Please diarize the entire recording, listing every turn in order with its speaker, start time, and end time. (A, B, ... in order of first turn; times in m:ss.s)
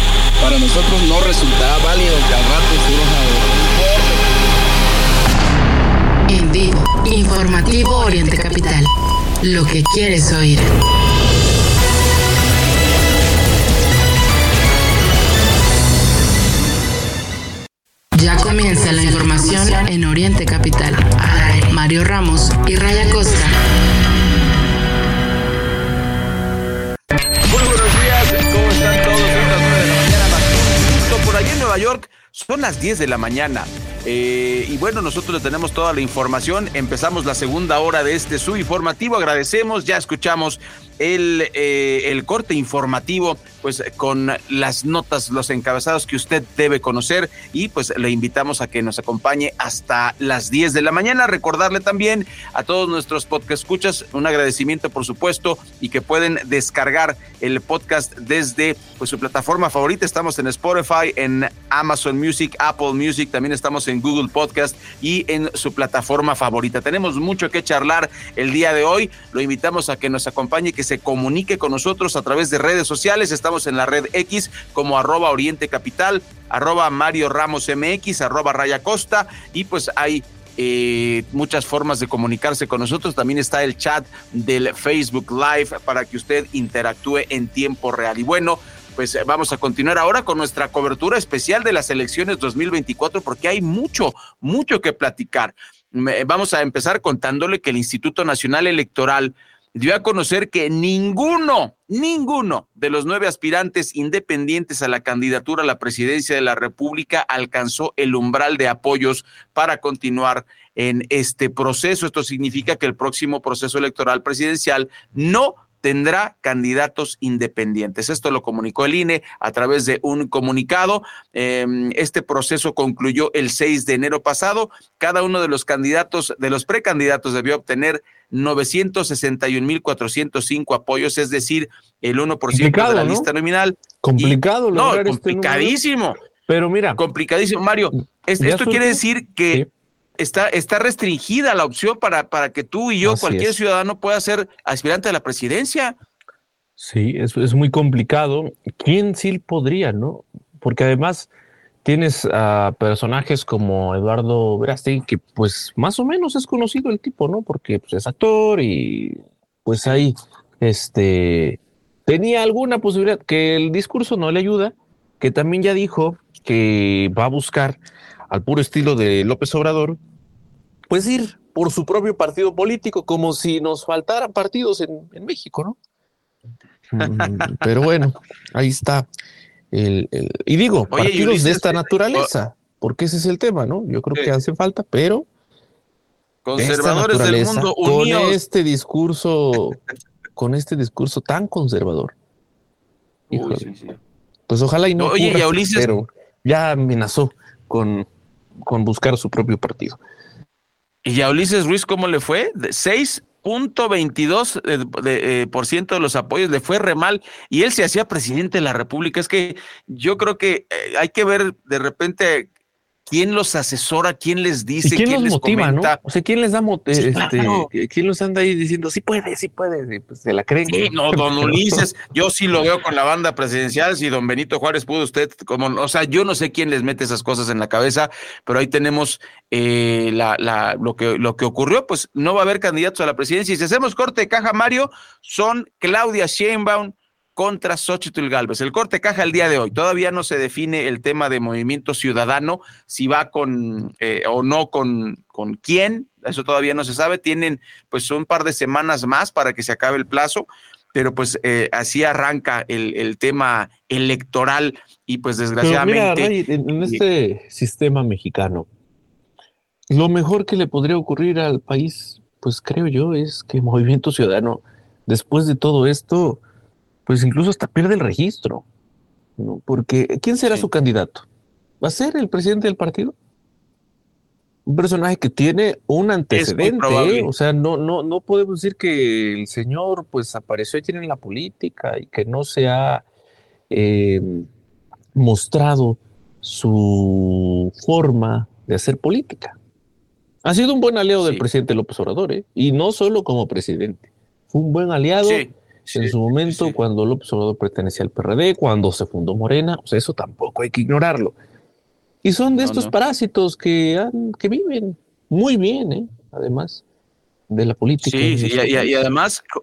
0:00.4-0:04.2 A
0:06.3-0:08.9 B
0:09.4-0:10.7 B
0:18.2-0:23.6 B
0:27.5-2:16.2 C
2:12.5-2:13.3 D
2:14.0-2:15.7 D
2:16.5-2:17.0 D
2:17.0-2:19.6 C
2:18.4-2:19.7 D
2:20.2-2:26.0 C
2:23.0-2:23.6 D
2:26.8-2:31.3 D
2:31.8-2:50.0 D
2:50.9-2:55.8 D
2:56.9-2:59.1 D
2:57.0-2:57.5 C
2:59.7-3:05.3 D
3:00.9-3:02.3 C
3:06.4-3:08.4 C
3:06.6-3:09.8 D
3:10.4-3:12.1 D
3:13.3-3:13.6 D
3:13.3-3:14.0 C
3:14.5-3:18.0 D
3:15.0-3:15.9 C
3:18.6-3:20.0 D
3:21.0-3:32.5 C
3:33.1-3:36.0 C
3:34.8-3:41.8 D
3:36.9-3:37.7 C
3:40.6-4:17.0 C
4:15.6-4:18.7 D
4:19.9-4:26.4 D
4:27.0-4:28.6 D
4:29.4-4:31.2 D
4:30.4-4:30.7 C
4:31.8-4:33.1 D
4:34.6-4:43.0 D
4:36.3-4:37.3 C
4:43.7-4:44.5 D
4:45.1-4:49.6 D
4:50.4-5:01.3 D
4:55.2-4:56.8 C
5:02.2-5:06.8 D
5:02.6-5:02.9 C
5:07.5-5:09.0 D
5:08.0-5:09.4 C